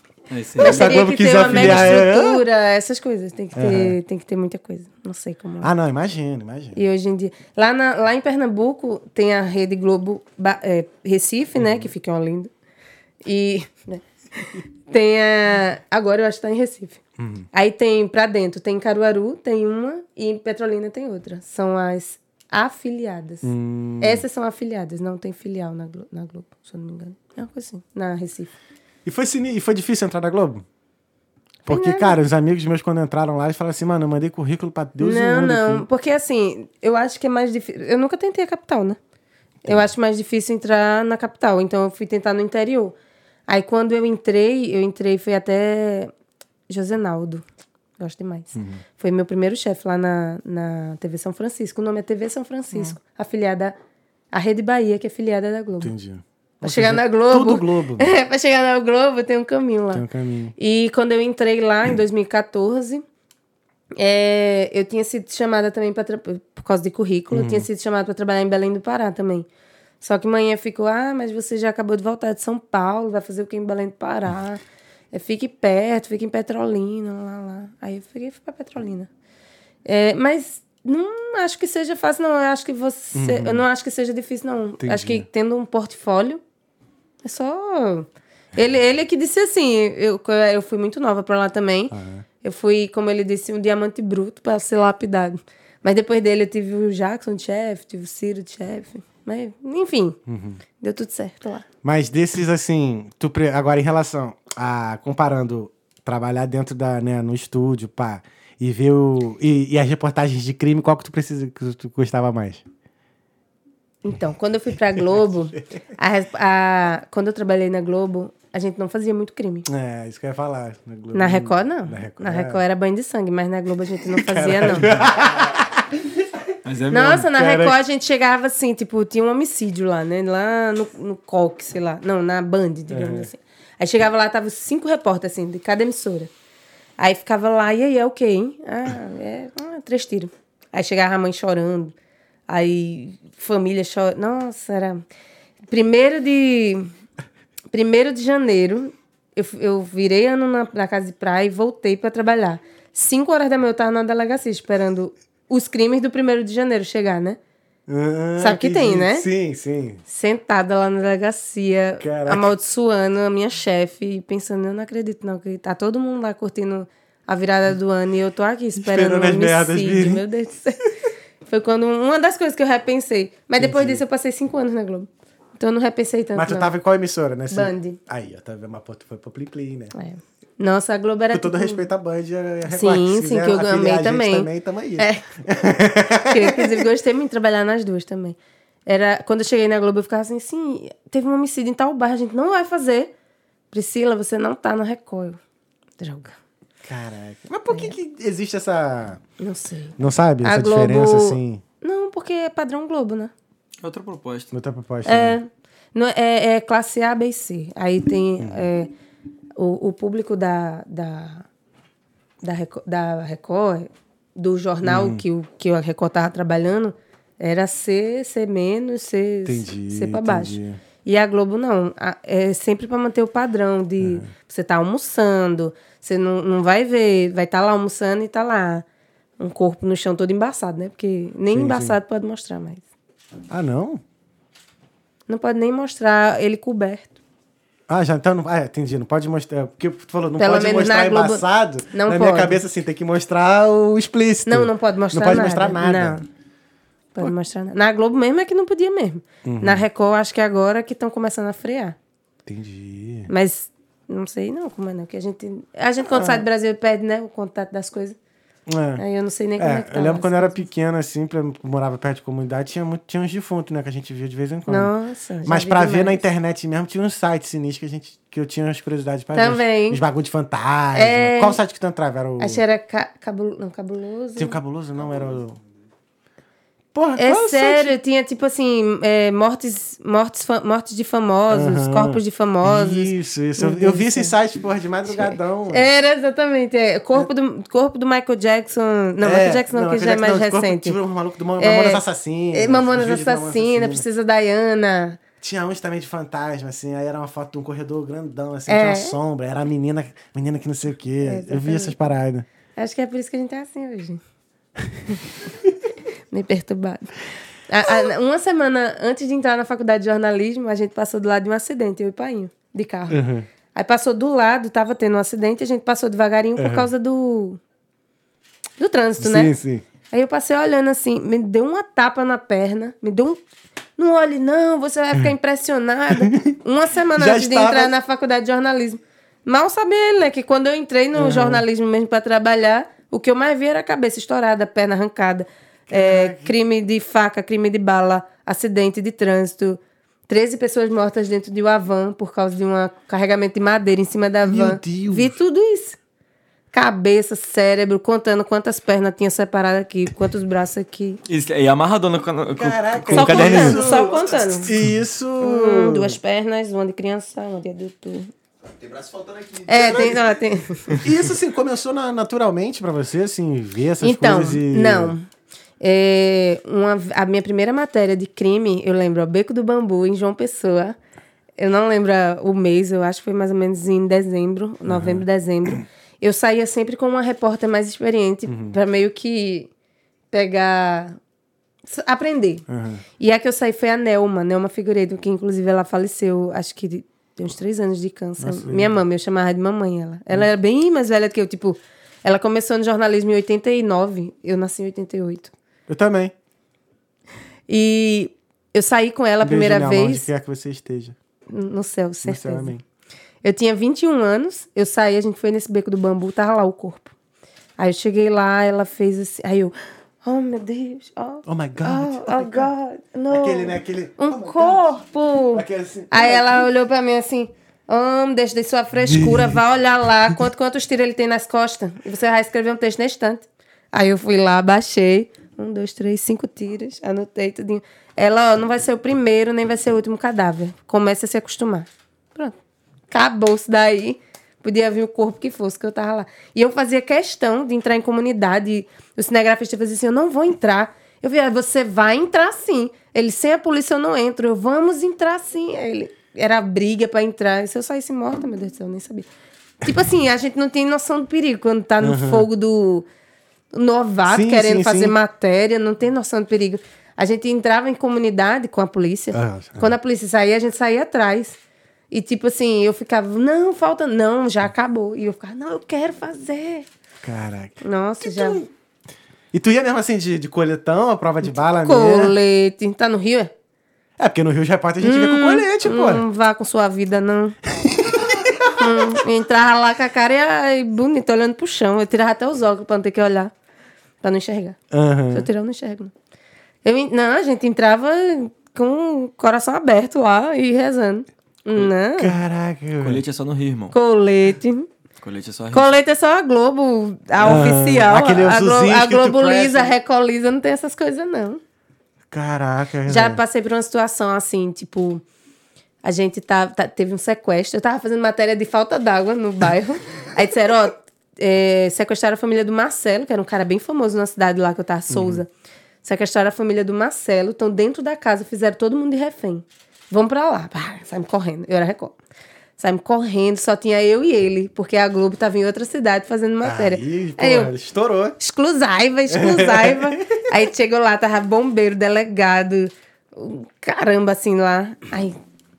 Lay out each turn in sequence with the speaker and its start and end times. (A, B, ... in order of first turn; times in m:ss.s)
0:00.3-0:02.1 A
0:00.6-0:05.7 B
0:00.6-0:02.4 C
0:03.5-0:04.0 C
0:05.6-0:06.8 C
0:06.8-0:12.5 B
0:11.6-0:11.9 C
0:13.2-0:17.0 B
0:17.2-0:17.4 C
0:17.5-0:23.5 B
0:23.4-0:24.2 C
0:24.0-0:28.5 B
0:29.0-0:30.6 C
0:31.7-0:32.2 B
0:31.7-0:35.8 C
0:35.0-0:39.0 B
0:39.6-0:39.9 C
0:39.6-0:42.9 B
0:43.5-0:46.1 B
0:46.7-0:47.4 B
0:48.0-0:53.7 B
0:48.5-0:48.8 C
0:54.3-0:55.9 B
0:55.8-0:58.1 C
0:56.6-1:00.0 B
0:59.9-1:00.5 C
1:00.6-1:03.0 B
1:04.0-1:09.4 B
1:07.3-1:07.7 C
1:10.0-1:14.6 B
1:15.1-1:19.1 B
1:19.8-1:26.4 B
1:23.1-1:23.6 C
1:24.8-1:25.2 C
1:27.2-1:40.2 B
1:31.9-1:32.2 C
1:40.3-1:40.6 C
1:40.8-1:41.6 B
1:41.8-1:52.6 C
1:54.0-1:59.6 B
1:59.6-2:02.6 C
2:01.1-2:04.9 B
2:04.1-2:05.8 C
2:06.6-2:07.3 A
2:06.9-2:16.3 B
2:07.3-2:07.8 C
2:12.9-2:13.3 C
2:17.0-2:21.9 B
2:22.5-2:25.0 B
2:25.7-2:26.9 B
2:27.7-2:37.4 B
2:37.9-2:40.0 C
2:38.4-2:39.2 B
2:40.1-2:50.8 B
2:42.0-2:42.5 C
2:48.8-2:50.2 C
2:51.5-2:56.7 B
2:53.6-2:54.0 C
2:56.3-2:59.9 C
2:57.5-2:58.0 B
2:59.9-3:01.9 B
3:01.3-3:06.8 C
3:02.7-3:05.2 B
3:06.3-3:13.1 B
3:13.7-3:15.4 B
3:16.0-3:16.3 B
3:16.8-3:19.2 C
3:19.4-3:23.3 B
3:20.0-3:21.6 C
3:23.8-3:24.5 A
3:24.5-3:25.4 C
3:25.0-3:28.9 B
3:29.6-3:31.4 B
3:32.4-3:48.8 B
3:34.8-3:35.2 C
3:39.4-3:40.8 C
3:44.0-3:44.3 C
3:49.4-3:52.8 B
3:51.5-3:52.0 C
3:53.5-3:54.0 C
3:55.3-3:57.2 B
3:57.9-4:06.2 C
4:00.4-4:02.6 B
4:04.4-4:06.2 B
4:07.2-4:12.0 B
4:09.4-4:09.8 C
4:12.4-4:13.3 C
4:13.3-4:18.2 B
4:16.0-4:16.4 C
4:18.7-4:19.0 C
4:19.0-4:20.7 B
4:19.6-4:24.9 C
4:24.7-4:26.2 B
4:25.4-4:32.6 C
4:29.3-4:30.0 B
4:30.9-4:31.6 B
4:32.4-4:34.6 B
4:34.4-4:35.6 C
4:36.9-4:37.9 C
4:37.2-4:44.3 B
4:41.5-4:45.9 C
4:45.1-4:51.0 B
4:49.2-4:54.0 C
4:51.6-4:55.2 B
4:55.4-5:02.4 C
4:58.7-4:59.2 B
5:01.2-5:02.0 B
5:02.8-5:04.2 B
5:06.3-5:07.2 B
5:07.7-5:13.2 B
5:13.1-5:13.5 C
5:13.7-5:17.6 B
5:16.6-5:16.9 C
5:18.8-5:19.5 B
5:19.2-5:19.8 C
5:20.1-5:23.4 B
5:24.0-5:46.0 B
5:26.2-5:26.5 C
5:27.2-5:27.9 C
5:31.1-5:31.6 C
5:35.9-5:36.5 C
5:44.4-5:45.3 C
5:46.7-5:51.2 B
5:51.2-5:54.0 A
5:52.6-5:56.2 C
5:53.1-5:54.7 B
5:55.4-5:58.3 B
5:58.6-6:00.6 D
5:59.7-6:00.9 B
6:01.0-6:05.1 C
6:04.0-6:05.2 B
6:05.8-6:11.0 B
6:11.6-6:19.7 B
6:14.9-6:15.2 C
6:18.5-6:18.8 C
6:20.3-6:21.2 B
6:21.8-6:22.6 B
6:22.7-6:23.0 C
6:23.2-6:35.5 B
6:28.4-6:29.0 C
6:35.9-6:36.3 C
6:37.7-6:40.3 B
6:39.4-6:41.1 C
6:41.5-6:42.7 B
6:42.2-6:42.8 C
6:43.4-6:47.1 B
6:47.8-7:12.5 B
6:51.4-6:52.7 C
6:53.3-6:54.8 C
6:55.5-6:56.7 C
6:59.1-6:59.6 C
7:13.1-7:29.3 B
7:29.8-7:33.0 B
7:32.0-7:32.5 C
7:33.7-7:41.6 B
7:34.3-7:35.2 C
7:39.3-7:39.9 C
7:42.1-7:46.8 B
7:47.2-7:48.7 C
7:47.8-7:48.6 B
7:49.5-7:52.4 C
7:51.8-7:53.5 B
7:54.2-7:56.2 C
7:55.0-7:57.6 B
7:57.8-7:58.9 C
7:58.8-8:03.5 B
8:04.2-8:04.8 B
8:04.9-8:05.5 C
8:05.3-8:06.1 B
8:06.8-8:12.4 B
8:12.2-8:13.2 C
8:13.0-8:14.0 A
8:13.9-8:14.9 B
8:15.2-8:15.9 A
8:15.7-8:21.6 B
8:17.4-8:19.9 C
8:22.3-8:23.4 C
8:23.1-8:25.2 B
8:26.0-8:35.5 B
8:35.1-8:35.4 C
8:36.0-8:42.2 B
8:42.8-8:47.7 B
8:46.6-8:48.4 C
8:48.4-8:55.4 B
8:49.3-8:50.4 C